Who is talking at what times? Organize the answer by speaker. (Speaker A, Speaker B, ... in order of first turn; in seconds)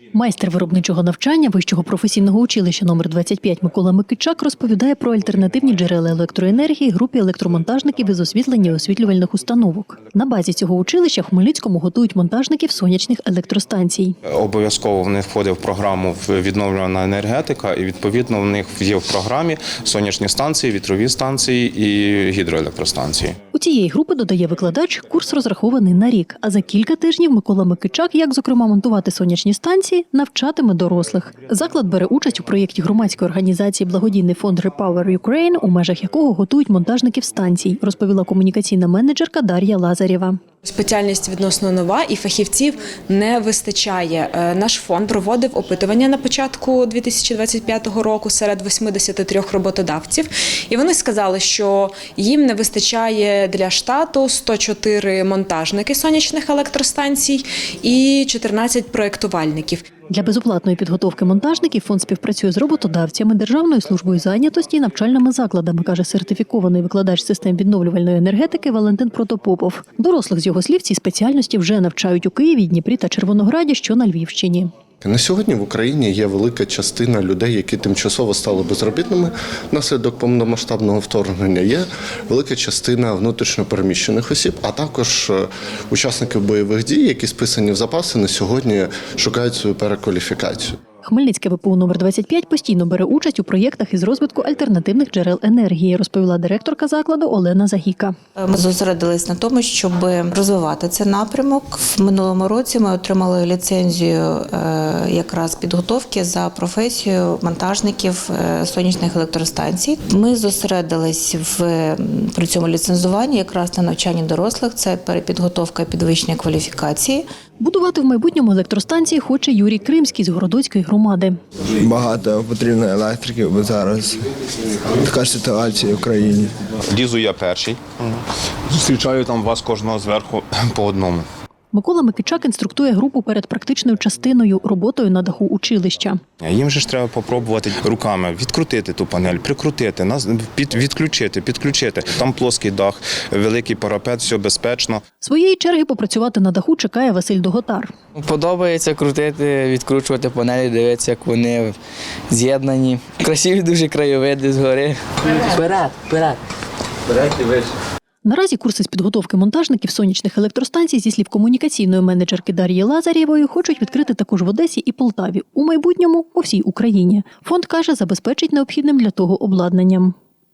Speaker A: 0.1-14.2, 23.5-40.4, 60.1-74.7, 91.0-98.1, 117.6-121.4, 131.7-136.2, 145.2-147.9, 158.2-170.2
Speaker B: 14.3-23.4, 126.9-131.2, 136.4-145.0
Speaker C: 40.7-59.8
Speaker D: 75.0-90.8
Speaker E: 98.4-117.2
Speaker F: 121.8-126.6
Speaker G: 148.2-151.8, 152.3-156.4, 157.1-157.7